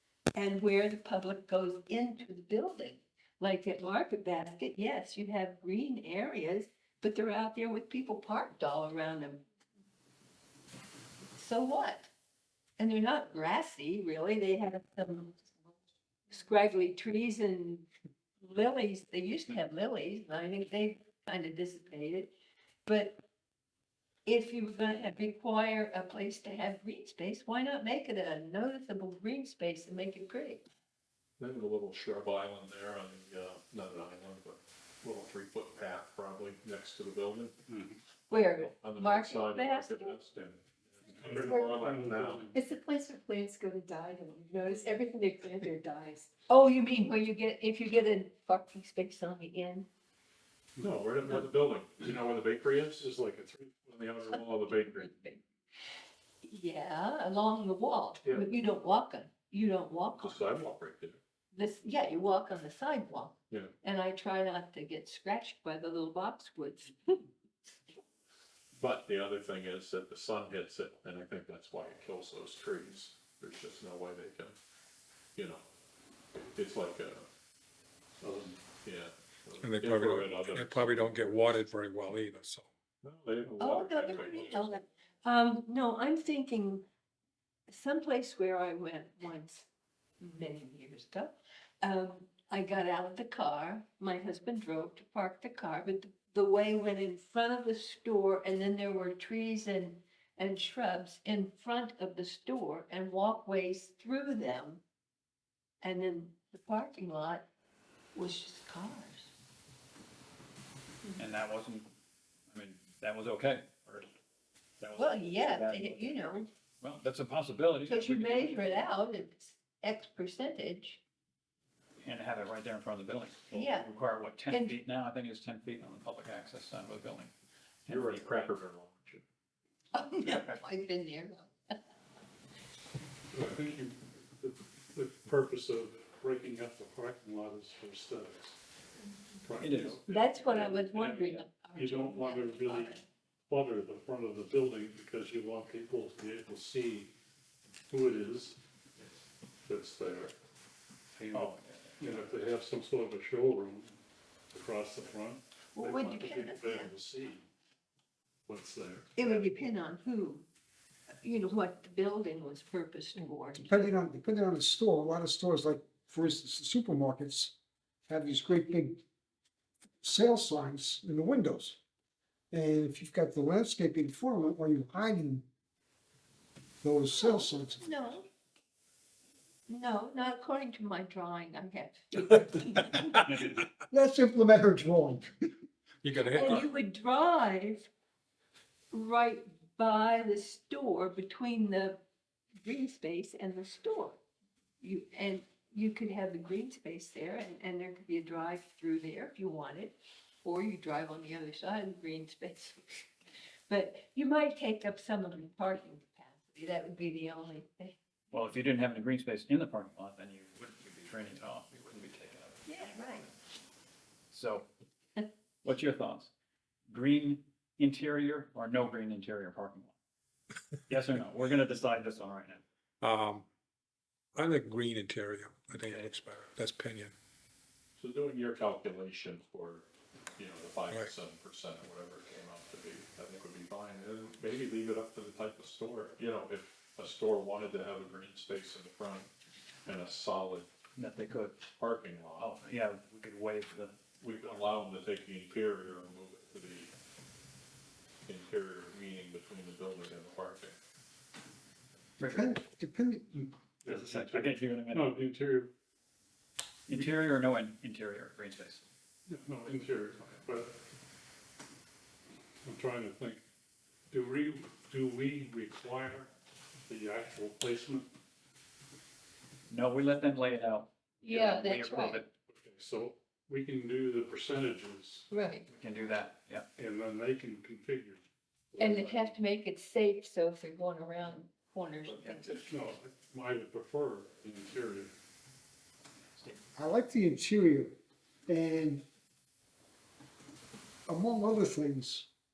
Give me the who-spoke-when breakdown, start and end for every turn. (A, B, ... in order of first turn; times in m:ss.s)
0:00.4-0:09.4 A
0:11.4-0:12.1 A
0:12.8-0:15.5 A
0:16.3-0:17.9 A
0:18.4-0:22.3 A
0:22.9-0:23.2 A
0:24.2-0:30.6 A
0:31.4-0:37.6 B
0:37.7-0:38.0 C
0:38.3-0:40.2 A
0:38.4-0:42.5 B
0:41.2-0:42.5 C
0:41.5-0:41.7 D
0:42.5-0:46.3 D
0:46.5-0:49.9 A
0:50.8-0:51.4 C
0:50.8-0:53.2 B
0:53.1-0:54.2 C
0:53.8-0:55.2 B
0:55.1-0:55.4 A
0:56.4-1:00.5 A
1:00.2-1:01.2 B
1:01.5-1:07.2 A
1:08.8-1:14.6 B
1:15.4-1:15.7 B
1:16.4-1:17.3 B
1:18.2-1:18.6 C
1:18.8-1:21.4 B
1:19.6-1:22.7 E
1:23.0-1:24.7 B
1:23.6-1:26.8 A
1:27.7-1:29.7 A
1:30.2-1:44.8 A
1:45.8-1:47.5 A
1:48.2-1:49.3 A
1:51.2-1:51.9 F
1:52.5-1:54.1 F
1:54.8-1:56.2 F
1:55.0-1:56.5 A
1:56.8-1:58.8 F
1:57.9-2:01.0 A
2:02.0-2:07.3 F
2:03.5-2:03.9 A
2:04.5-2:04.8 A
2:07.9-2:08.5 F
2:07.9-2:09.2 B
2:09.9-2:11.8 A
2:13.3-2:18.6 C
2:19.4-2:23.0 C
2:19.6-2:21.4 F
2:20.1-2:23.0 A
2:23.5-2:27.1 C
2:27.9-2:28.6 C
2:29.6-2:30.4 C
2:31.2-2:34.0 C
2:31.2-2:32.3 F
2:34.5-2:37.5 C
2:35.7-2:36.9 A
2:38.5-2:39.1 C
2:39.2-2:40.5 A
2:41.2-2:43.9 A
2:43.5-2:47.6 G
2:48.1-2:49.0 G
2:50.0-2:51.8 G
2:52.5-2:55.4 G
2:56.8-2:58.1 G
2:57.2-2:58.3 A
2:59.7-3:02.9 A
3:02.8-3:03.7 F
3:03.9-3:05.3 G
3:06.0-3:06.7 E
3:06.3-3:07.9 A
3:08.9-3:12.0 A
3:12.6-3:14.2 A
3:14.8-3:23.1 A
3:23.7-3:28.0 A
3:28.3-3:33.3 F
3:32.7-3:33.3 A
3:34.3-3:34.7 F
3:35.6-3:36.3 F
3:36.9-3:40.0 F
3:40.9-3:42.6 F
3:43.0-3:43.5 E
3:44.4-3:47.1 E
3:45.7-3:46.1 F
3:48.0-3:59.3 B
3:59.8-4:00.7 B
4:01.0-4:01.6 F
4:01.8-4:02.5 B
4:02.4-4:04.0 F
4:04.2-4:06.9 B
4:08.2-4:10.8 B
4:12.2-4:12.6 F
4:12.2-4:13.3 G
4:13.3-4:15.7 C
4:13.9-4:15.2 F
4:16.9-4:18.8 F
4:19.3-4:20.7 C
4:22.6-4:23.4 C
4:24.1-4:26.3 C
4:26.9-4:28.1 C
4:29.7-4:32.3 F
4:31.2-4:32.2 A
4:32.5-4:35.3 C
4:35.3-4:35.7 A
4:35.7-4:36.7 F
4:36.8-4:38.2 C
4:38.7-4:39.4 C
4:38.8-4:42.6 A
4:42.1-4:42.6 F
4:42.7-4:45.1 C
4:46.4-4:46.6 F
4:46.8-4:48.0 G
4:48.5-4:49.0 G
4:51.1-4:52.3 G